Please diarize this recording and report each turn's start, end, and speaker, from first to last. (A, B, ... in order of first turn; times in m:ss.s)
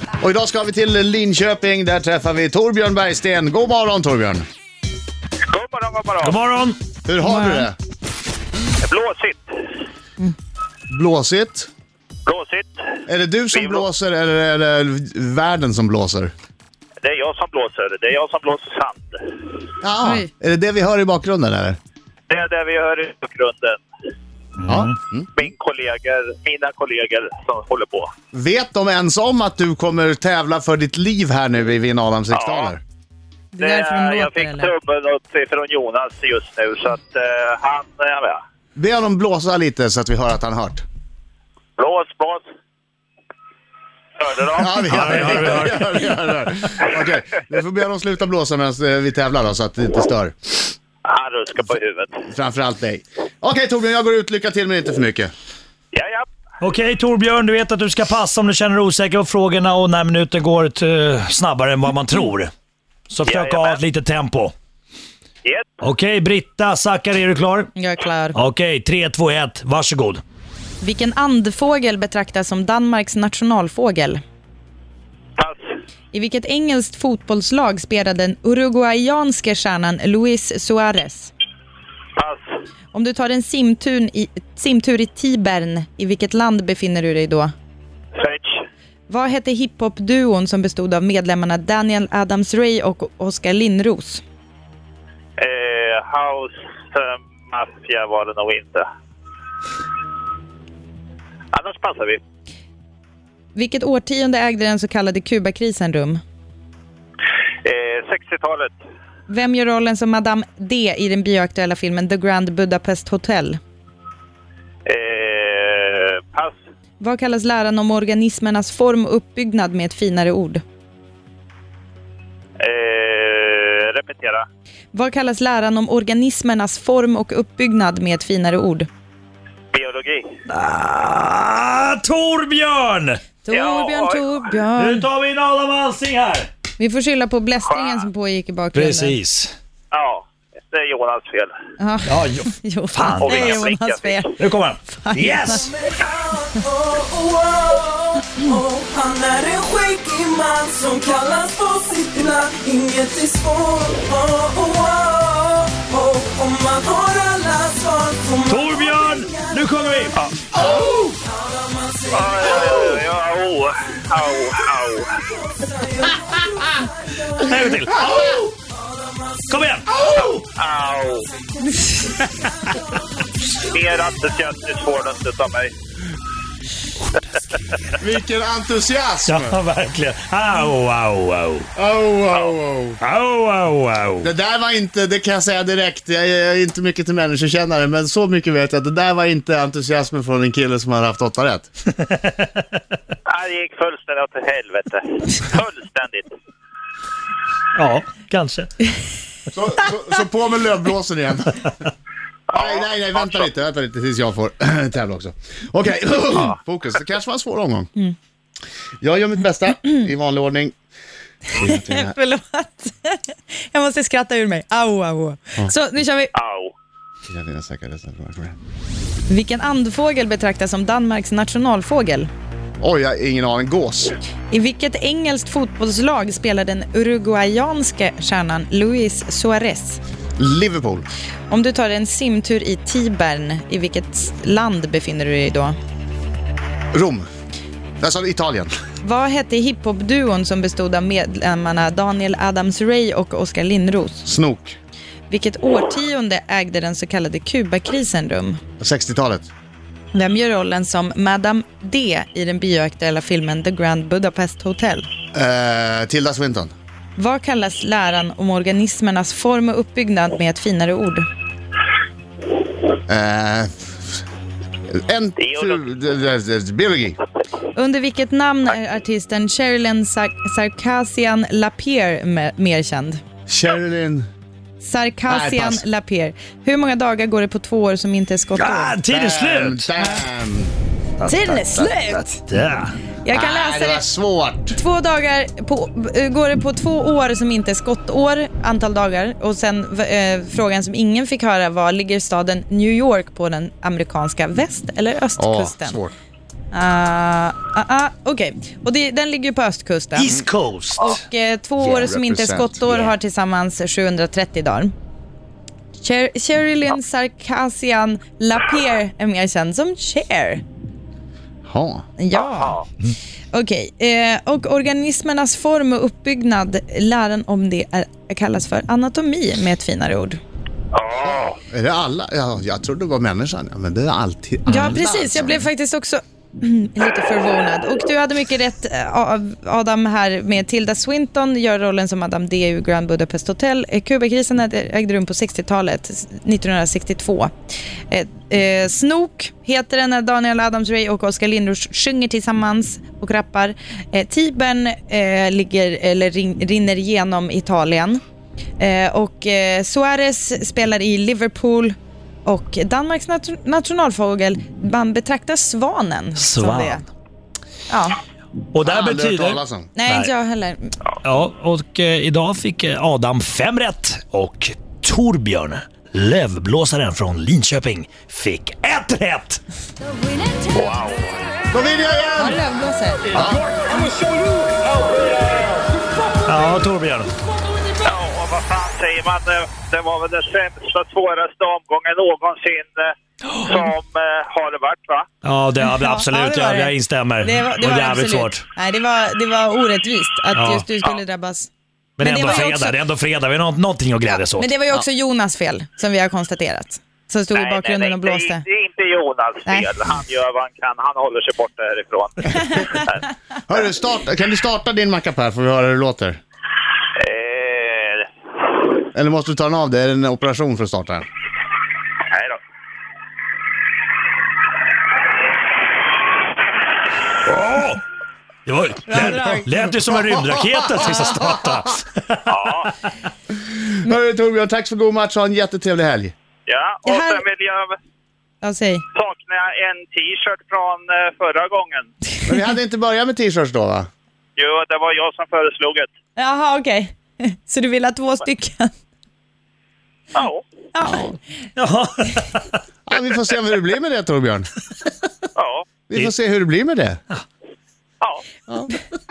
0:00.2-0:04.4 A
0:05.5-0:06.4 B
0:06.2-0:06.8 C
0:07.0-0:07.8 A
0:07.2-0:07.7 D
0:08.8-0:09.5 B
0:10.9-0:11.7 A
0:12.3-0:13.0 B
0:13.1-0:16.3 A
0:13.5-0:13.8 B
0:17.0-0:19.5 B
0:19.8-0:21.8 A
0:20.0-0:20.3 D
0:22.3-0:23.8 B
0:24.6-0:24.9 C
0:24.7-0:25.3 A
0:25.4-0:28.1 B
0:28.3-0:32.8 A
0:32.3-0:32.7 B
0:33.5-0:34.7 D
0:33.6-0:38.4 B
0:38.8-0:40.8 A
0:41.8-0:42.4 B
0:44.2-0:45.6 B
0:44.6-0:50.6 A
0:44.9-0:45.9 C
0:51.0-0:52.2 B
0:52.3-0:55.3 A
0:55.9-0:56.3 B
0:56.6-1:02.5 C
1:03.1-1:04.5 C
1:03.3-1:03.8 B
1:05.4-1:05.7 B
1:05.8-1:07.7 C
1:07.8-1:08.4 D
1:08.4-1:10.2 C
1:10.8-1:14.2 D
1:16.1-1:21.3 D
1:22.9-1:27.5 D
1:28.2-1:28.6 B
1:29.1-1:34.2 D
1:35.4-1:38.8 B
1:41.5-1:42.2 B
1:43.6-1:46.2 D
1:47.6-1:48.8 B
1:49.3-1:53.6 D
1:54.9-1:56.6 B
1:57.0-2:00.6 D
2:02.6-2:04.4 B
2:04.9-2:08.9 D
2:09.7-2:10.3 B
2:10.5-2:13.3 C
2:13.4-2:15.1 D
2:13.5-2:14.4 B
2:14.8-2:16.5 C
2:16.8-2:19.2 D
2:17.7-2:18.1 B
2:18.7-2:19.5 C
2:19.9-2:21.5 B
2:21.8-2:25.7 D
2:22.1-2:23.7 C
2:23.2-2:24.3 B
2:24.4-2:25.6 C
2:25.6-2:39.6 E
2:38.5-2:40.2 C
2:40.7-2:42.4 E
2:42.1-2:45.1 B
2:45.6-2:47.4 E
2:47.4-2:48.5 C
2:48.7-2:49.4 E
2:49.5-2:50.4 C
2:50.1-2:51.3 B
2:51.6-2:51.9 E
2:52.2-2:52.7 C
2:53.6-2:55.7 B
2:58.0-2:59.6 A
2:59.2-3:01.7 C
3:01.8-3:03.0 A
3:03.0-3:04.3 C
3:04.2-3:11.7 A
3:12.1-3:12.3 C
3:13.3-3:16.3 B
3:17.8-3:18.9 C
3:19.5-3:21.7 A
3:22.5-3:23.5 B
3:22.5-3:27.9 A
3:29.0-3:30.7 A
3:31.5-3:32.2 A
3:31.5-3:36.3 D
3:36.4-3:36.7 B
3:37.2-3:38.6 A
3:39.3-3:42.3 D
3:42.8-3:44.2 A
3:44.5-3:50.0 D
3:50.4-3:51.1 A
3:51.5-3:55.8 D
3:56.9-3:57.2 A
3:58.0-3:58.7 A
3:59.0-4:04.3 D
4:04.3-4:04.8 A
4:05.3-4:08.6 D
4:08.8-4:09.5 A
4:10.1-4:15.1 D
4:15.3-4:16.7 A
4:17.2-4:21.3 D
4:23.1-4:24.2 A
4:24.9-4:27.2 A
4:25.4-4:25.8 B
4:27.7-4:33.2 D
4:33.5-4:34.2 A
4:34.8-4:39.0 D
4:35.3-4:35.8 A
4:38.6-4:39.9 C
4:39.1-4:40.7 A
4:41.2-4:42.9 C
4:41.2-4:42.4 D
4:43.2-4:44.1 D
4:43.3-4:44.8 A
4:44.7-4:56.0 D
4:55.4-4:56.1 A
4:56.7-5:00.3 D
5:00.2-5:01.2 C
5:01.0-5:04.9 D
5:01.8-5:03.0 A
5:06.0-5:10.6 D
5:11.7-5:12.0 A
5:12.2-5:12.8 D
5:12.3-5:12.8 B
5:13.5-5:20.4 D
5:20.9-5:21.6 B
5:21.2-5:25.7 A
5:24.7-5:37.5 D
5:38.1-5:48.2 D
5:48.8-5:52.0 D
5:52.5-5:57.0 D
5:56.4-5:57.0 C
5:57.9-5:58.2 D
5:58.7-6:00.3 C
5:58.8-5:59.9 A
6:00.0-6:01.0 D
6:01.2-6:09.6 C
6:10.7-6:11.4 B
6:11.7-6:12.6 A
6:12.4-6:14.1 D
6:13.3-6:13.7 A
6:16.4-6:17.3 C
6:18.0-6:25.3 B
6:25.4-6:28.6 C
6:25.8-6:31.7 D
6:30.5-6:30.9 C
6:32.2-6:34.7 C
6:32.2-6:33.0 D
6:34.3-6:38.6 D
6:37.6-6:43.3 B
6:43.7-6:46.4 A
6:47.2-6:48.3 B
6:49.1-6:51.3 A
6:52.3-6:52.6 B
6:57.4-6:58.0 C
6:58.7-7:02.6 C
6:59.1-6:59.7 D
7:02.5-7:02.9 B
7:03.8-7:06.3 A
7:06.7-7:07.9 B
7:07.0-7:07.4 D
7:08.6-7:09.0 D
7:09.2-7:12.1 B
7:12.4-7:14.1 A
7:14.6-7:16.1 B
7:16.4-7:18.9 D
7:20.3-7:20.6 B
7:20.9-7:21.4 D
7:21.8-7:22.8 C
7:23.1-7:24.7 A
7:25.6-7:25.8 B
7:26.1-7:27.2 A